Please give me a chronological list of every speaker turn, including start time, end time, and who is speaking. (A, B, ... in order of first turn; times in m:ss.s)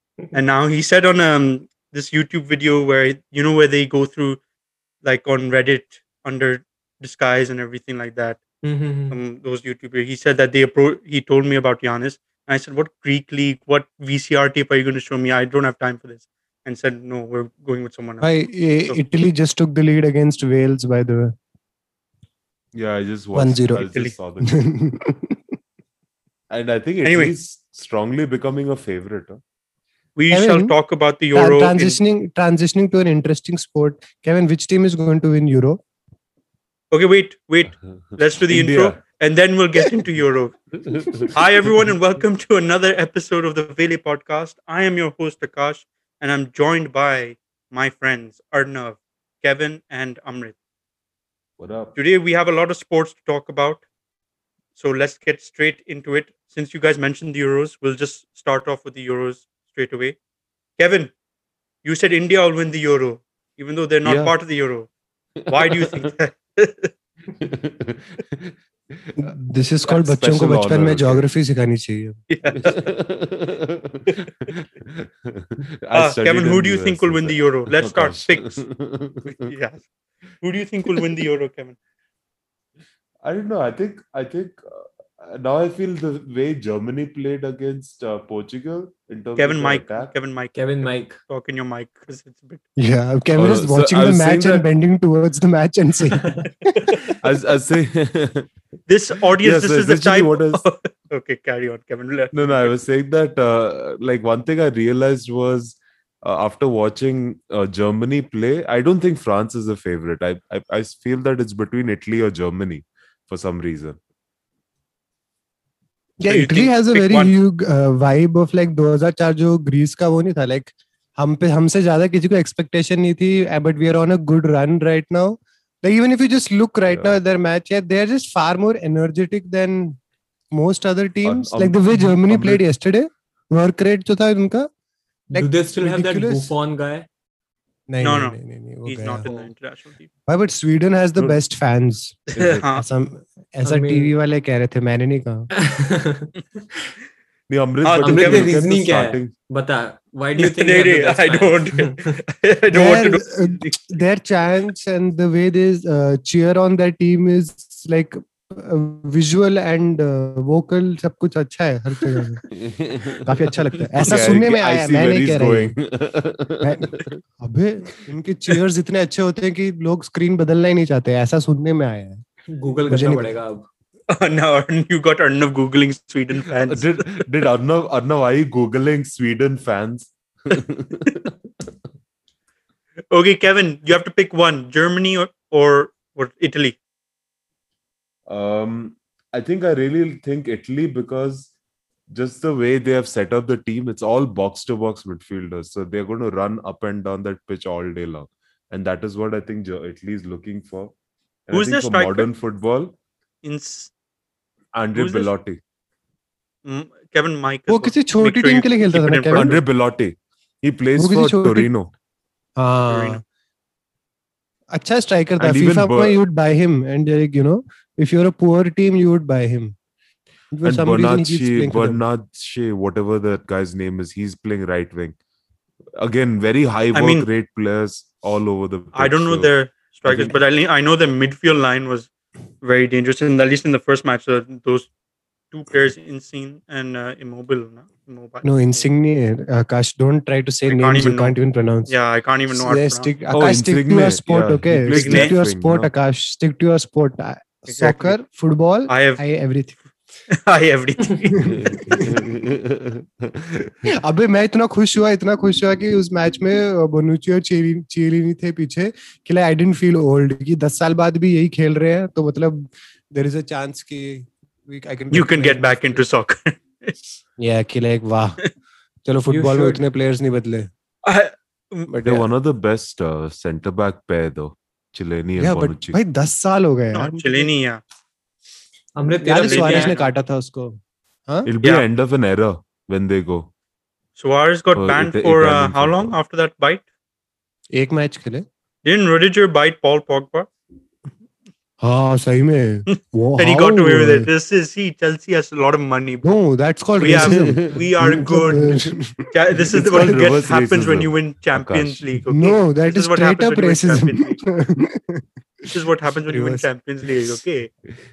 0:00.3-0:04.4 A
0:05.0-0:08.4 A
0:08.6-0:09.2 B
0:09.1-0:18.3 A
0:18.2-0:21.4 C
0:22.7-0:24.6 D
0:23.3-0:23.9 C
0:23.7-0:24.1 A
0:24.4-0:25.4 C
0:26.5-0:29.4 D
0:27.0-0:27.3 A
0:30.2-0:32.0 A
0:30.3-0:30.7 C
0:31.3-0:35.8 C
0:36.9-0:40.6 A
0:38.5-0:39.0 D
0:40.9-0:41.3 D
0:41.1-0:50.6 A
0:51.6-0:52.0 D
0:52.0-0:53.8 A
0:54.8-1:00.2 A
1:00.8-1:01.1 A
1:01.8-1:04.9 A
1:04.0-1:04.3 D
1:05.5-1:06.1 D
1:05.5-1:06.9 A
1:07.4-1:09.3 D
1:09.2-1:12.2 C
1:09.8-1:11.2 D
1:12.3-1:12.9 A
1:12.5-1:19.5 D
1:15.9-1:18.6 A
1:19.3-1:19.8 A
1:20.4-1:21.8 A
1:23.2-1:30.1 D
1:29.4-1:32.6 A
1:30.6-1:31.2 B
1:32.8-1:36.9 C
1:33.4-1:34.6 D
1:36.1-1:36.5 B
1:36.8-1:37.1 A
1:37.1-1:38.5 D
1:38.9-1:42.8 A
1:39.4-1:40.6 D
1:42.3-1:54.0 D
1:56.2-2:10.0 C
1:56.3-1:57.3 A
2:06.9-2:07.2 D
2:10.5-2:14.7 C
2:11.2-2:12.6 D
2:15.3-2:16.5 C
2:15.3-2:17.1 B
2:17.9-2:19.2 C
2:18.0-2:20.1 A
2:19.2-2:19.5 B
2:20.3-2:25.5 C
2:22.3-2:22.7 D
2:22.4-2:22.8 A
2:23.6-2:24.1 B
2:25.5-2:26.9 B
2:27.5-2:29.3 D
2:27.8-2:28.6 A
2:28.0-2:32.2 B
2:30.4-2:33.2 A
2:32.7-2:42.5 C
2:42.5-2:47.2 D
2:43.2-2:45.8 C
2:46.6-2:52.2 C
2:52.5-2:53.7 B
2:52.9-2:53.3 C
2:54.1-2:57.3 A
2:56.6-3:01.3 D
3:03.1-3:06.8 A
3:08.3-3:11.5 D
3:12.1-3:20.9 D
3:21.5-3:23.0 D
3:21.5-3:22.3 A
3:23.4-3:23.9 A
3:24.7-3:25.6 D
3:25.0-3:25.3 A
3:26.7-3:29.6 A
3:27.7-3:29.6 C
3:29.3-3:31.9 D
3:31.0-3:31.7 C
3:32.6-3:33.2 C
3:32.9-3:33.2 A
3:34.7-3:39.8 C
3:35.4-3:36.2 D
3:40.5-3:42.0 C
3:40.6-3:45.2 D
3:46.0-3:49.5 D
3:46.9-3:47.3 A
3:48.9-3:52.1 A
3:50.1-3:50.4 D
3:52.6-3:54.9 A
3:55.5-3:58.8 A
3:58.4-4:01.9 C
4:00.7-4:01.4 A
4:01.9-4:03.1 A
4:02.5-4:09.8 C
4:03.3-4:05.9 D
4:04.9-4:05.4 A
4:07.7-4:08.2 A
4:08.9-4:09.2 A
4:10.3-4:11.8 A
4:11.3-4:12.3 C
4:11.4-4:13.9 D
4:13.9-4:26.0 C
4:25.1-4:27.0 A
4:27.4-4:28.4 C
4:29.0-4:30.7 C
4:29.3-4:29.8 B
4:31.0-4:31.9 A
4:31.9-4:32.3 C
4:32.0-4:36.0 D
4:35.4-4:37.5 C
4:36.9-4:37.8 A
4:39.0-4:40.0 B
4:39.2-4:41.5 C
4:39.3-4:40.1 A
4:41.4-4:43.5 D
4:44.2-4:46.8 A
4:44.8-4:46.2 D
4:47.7-4:48.4 C
4:48.8-4:50.5 A
4:51.8-4:54.3 C
4:52.9-4:56.4 A
4:56.2-4:59.8 C
4:57.0-5:04.4 A
4:57.1-4:57.8 D
4:59.7-5:02.2 D
5:02.3-5:05.7 C
5:05.7-5:07.7 A
5:06.3-5:06.7 C